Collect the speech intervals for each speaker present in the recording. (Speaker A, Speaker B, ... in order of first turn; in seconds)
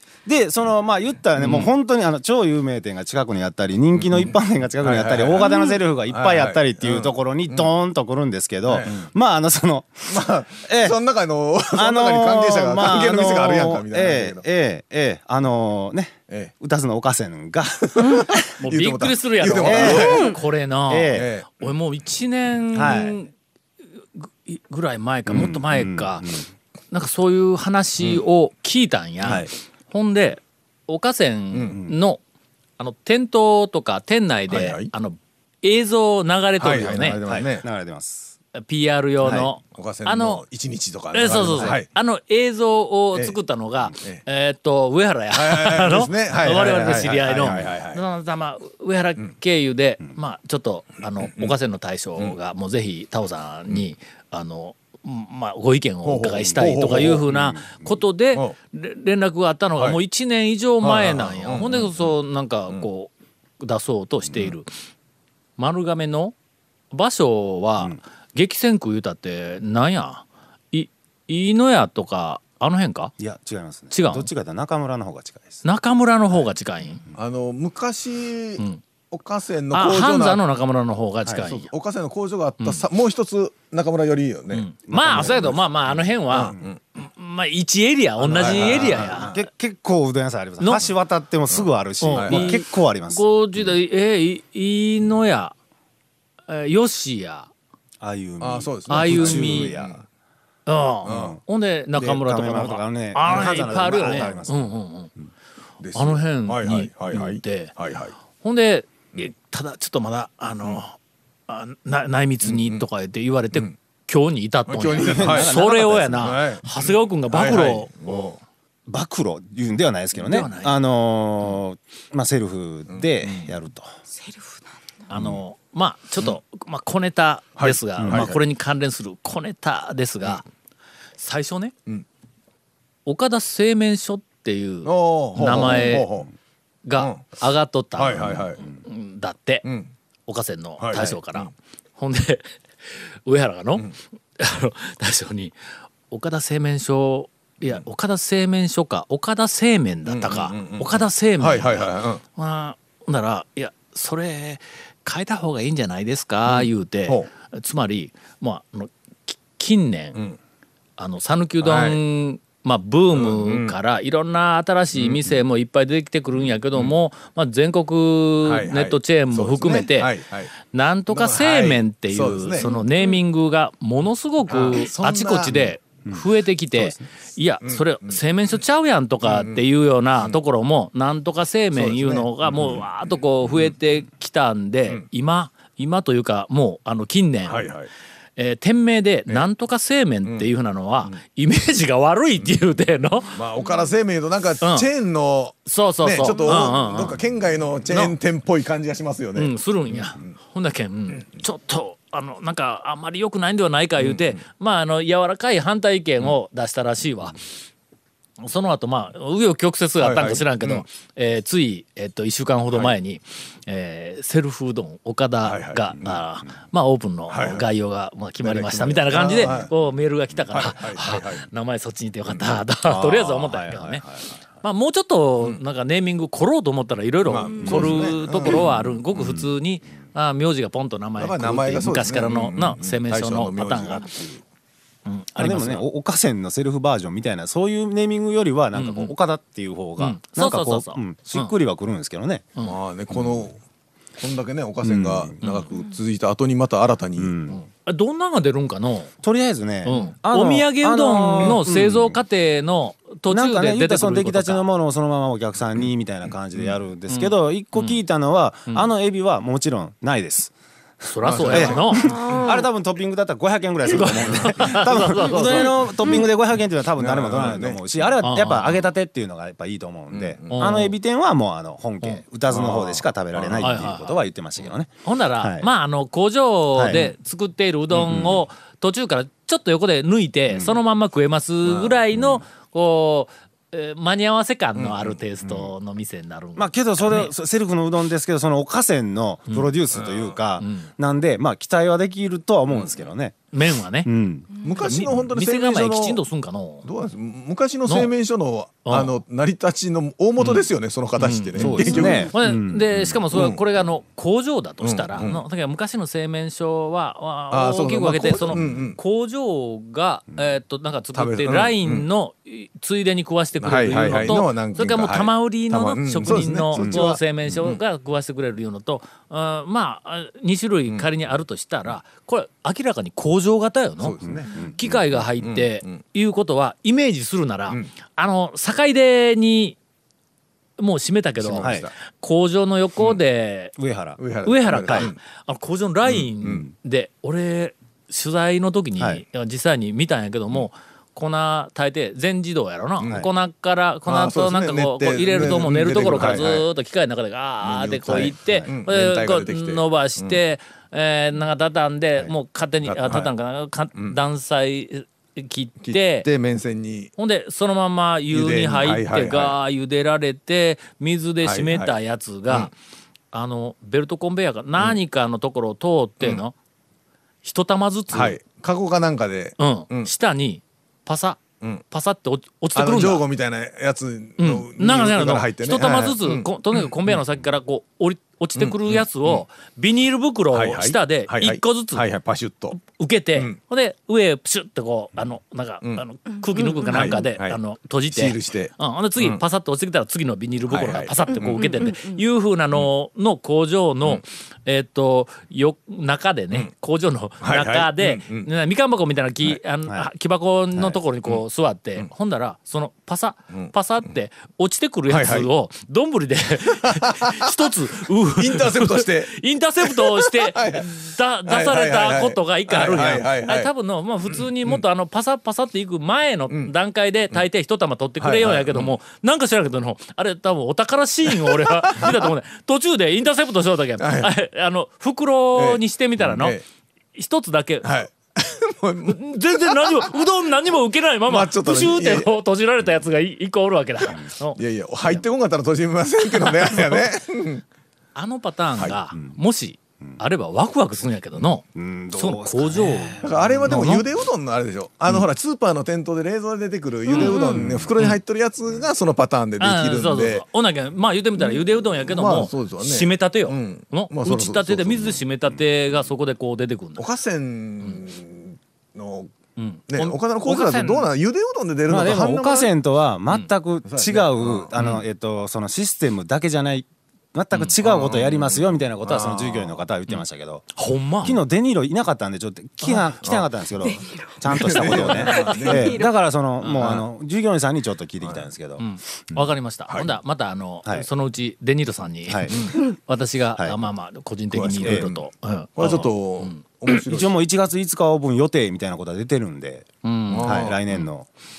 Speaker A: 0.3-10.1, 10.7-11.0, 11.7-18.3, 19.6-20.2, 20.9-21.3, 22.7-23.2, 25.3-26.4, 29.2-29.5, 36.9-38.3, 39.2-39.5, 41.4-41.8, 56.4-56.7, 57.3-58.0, 73.2-75.6, 84.9-85.6, 88.2-93.2, 98.0-100.0, 101.1-101.4, 102.0-104.7, 115.0-116.3, 118.9-123.9, 128.0-128.3, 176.1-177.0, 222.8-224.3, 235.4-242.4, 244.8-245.4, 247.2-247.6, 249.2-252.2, 253.3-260.5, 261.5-275.7, 276.7-277.1, 278.1-278.4, 280.5-280.8, 286.6-293.4, 294.0-294.5, 301.6-303.2, 308.5-308.9, 316.7-317.1, 324.2-324.8, 331.6-331.9, 333.8-334.2, 334.8-335.1, 339.0-339.2, 348.1-348.7, 441.7-444.0, 447.5-447.9, 461.9-470.7, 471.2-479.5, 482.3-482.6, 486.9-489.9, 490.4-491.3
Speaker B: 1.4-1.7, 18.6-23.3, 24.0-26.3, 26.9-32.2, 32.8-37.2, 38.5-40.4, 41.1-64.7, 65.6-66.3, 66.9-73.1, 73.9-74.3, 75.6-77.0, 79.7-81.7, 82.6-82.9, 84.5-89.3, 92.0-95.5, 96.5-97.5, 98.9-99.7, 100.7-105.1, 106.0-107.7, 108.4-111.0, 111.5-118.4, 120.2-120.8, 125.1-130.4, 131.2-131.7, 133.1-136.1, 136.8-139.7, 140.3-142.5, 143.2-145.6, 146.1-160.2, 161.0-170.1, 170.7-187.7, 188.4-193.4, 194.6-194.9, 195.7-197.2, 197.9-198.2, 199.4-207.4, 208.4-224.0, 224.6-234.1, 235.1-235.9, 238.8-239.1, 240.0-241.5, 245.4-245.7, 247.5-249.1, 249.8-254.7, 257.1-258.0, 261.1-262.2, 263.9-265.9, 268.2-268.8, 270.5-271.0, 273.6-274.2, 275.0-287.3, 290.6-290.9, 293.5-294.1, 294.8-296.9, 298.9-299.2, 300.4-300.7, 301.2-329.8, 330.8-333.8, 334.4-356.3, 357.2-362.7, 363.3-366.6, 367.4-368.4, 369.6-373.2, 374.4-382.0, 382.8-426.6, 427.1-428.0, 429.1-435.2, 436.4-437.0, 438.1-444.0, 449.6-457.1, 459.6-461.1, 470.8-471.4, 475.4-475.6, 476.6-477.0, 478.8-486.6, 490.0-491.0
Speaker C: 4.0-7.7, 8.7-9.1, 10.1-14.4, 17.9-20.4, 21.1-21.7, 31.5-31.8, 34.5-34.9, 36.6-37.6, 39.6-41.9, 43.9-44.2, 45.3-48.0, 51.2-51.5, 56.0-57.3, 60.8-62.1, 77.2-80.4, 81.5-85.5, 86.3-86.8, 88.3-89.4, 91.5-92.6, 98.4-100.0, 101.0-101.4, 103.2-104.4, 105.8-108.1, 112.4-112.8, 114.7-115.6, 116.1-118.4, 122.9-123.5, 127.6-128.4, 134.8-136.3, 137.0-137.2, 138.0-138.6, 139.7-139.9, 140.8-141.5, 150.1-152.2, 156.5-157.3, 161.6-162.0, 163.1-163.8, 164.9-165.4, 168.4-170.5, 171.1-172.7, 174.5-175.7, 177.6-178.2, 179.2-179.6, 181.7-182.9, 183.4-183.7, 187.5-187.9, 193.3-200.3, 204.0-204.4, 210.0-210.8, 215.4-216.2, 217.3-217.7, 218.4-219.7, 220.5-221.5, 222.3-222.6, 227.2-229.4, 231.2-234.4, 242.6-243.6, 244.2-247.4, 261.2-262.4, 267.0-268.1, 270.1-270.7, 272.5-273.9, 277.9-278.4, 281.6-282.0, 284.8-285.2, 289.9-290.4, 292.7-293.0, 294.6-296.2, 296.8-302.3, 303.3-303.6, 304.8-305.4, 307.5-309.0, 311.1-312.1, 313.6-317.8, 324.0-326.0, 331.4-331.9, 334.2-335.2, 336.1-336.7, 344.1-346.7, 347.6-350.4, 352.9-353.3, 355.8-357.1, 358.3-359.6, 361.4-361.9, 368.1-370.1, 372.8-377.2, 378.6-379.4, 380.5-382.8, 386.9-389.4, 390.7-391.9, 397.4-398.5, 405.1-405.5, 406.8-407.5, 408.3-413.7, 414.3-414.8, 418.2-419.0, 421.3-422.3, 424.0-424.3, 425.6-426.6, 427.8-430.1, 431.3-432.3, 434.6-437.6, 443.2-450.4, 451.4-455.2, 457.0-459.3, 459.9-462.7, 463.9-464.7, 467.8-469.8, 474.5-476.0, 484.5-485.2, 485.8-487.4, 490.3-490.8
Speaker D: 19.9-20.4, 124.1-124.7, 172.6-173.2, 227.5-227.8, 262.1-262.7, 386.4-387.2, 391.3-392.2, 447.1-447.6, 473.8-476.1